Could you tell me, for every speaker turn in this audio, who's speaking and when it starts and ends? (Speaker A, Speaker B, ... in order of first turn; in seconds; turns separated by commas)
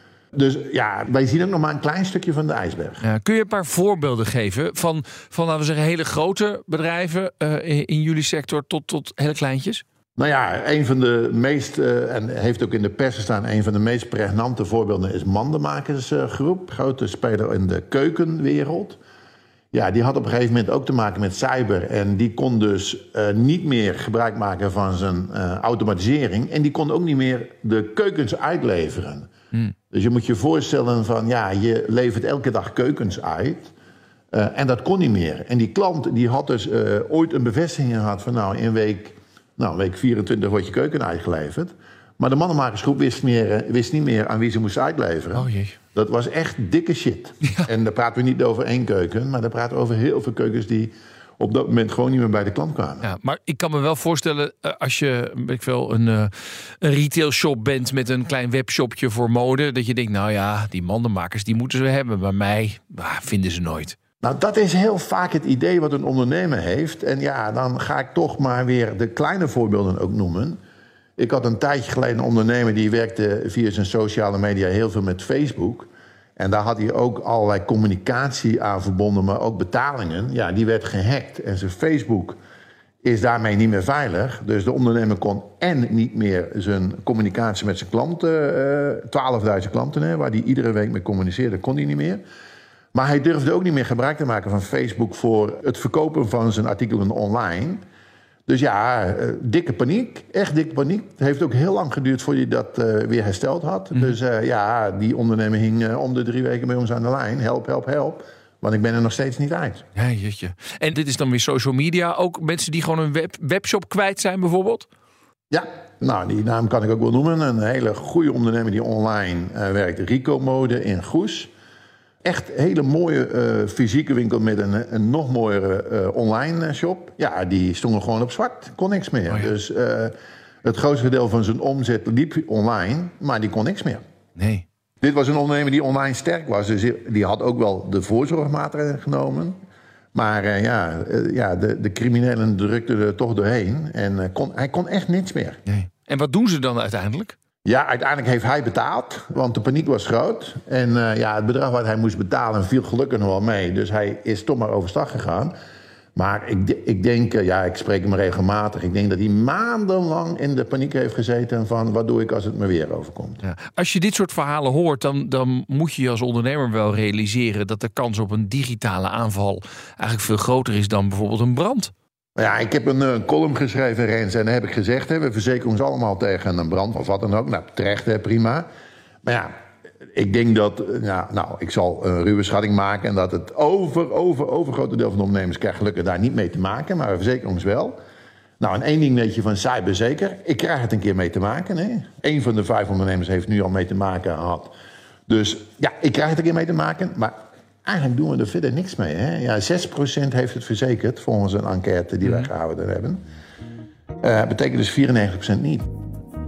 Speaker A: 0.3-3.0, Speaker B: 3.0-9.8, Speaker A: 10.2-19.0, Speaker A: 19.7-29.3, Speaker A: 29.9-33.7, Speaker A: 34.3-53.1, Speaker B: 45.3-45.8, Speaker B: 53.0-64.0, Speaker A: 64.2-70.6, Speaker A: 71.2-82.4, Speaker A: 83.0-92.2, Speaker A: 92.9-97.8, Speaker A: 98.5-109.8, Speaker B: 109.9-114.9, Speaker A: 115.5-121.5, Speaker A: 122.2-134.0, Speaker B: 134.3-134.6, Speaker A: 135.0-139.6, Speaker A: 140.1-145.6, Speaker B: 145.7-147.4, Speaker A: 147.6-155.6, Speaker A: 156.2-163.4, Speaker B: 163.4-171.9, Speaker A: 172.3-178.7, Speaker A: 179.2-179.5, Speaker A: 180.1-188.0, Speaker A: 188.6-194.7, Speaker A: 195.3-203.2, Speaker B: 202.2-202.5, Speaker A: 204.2-205.9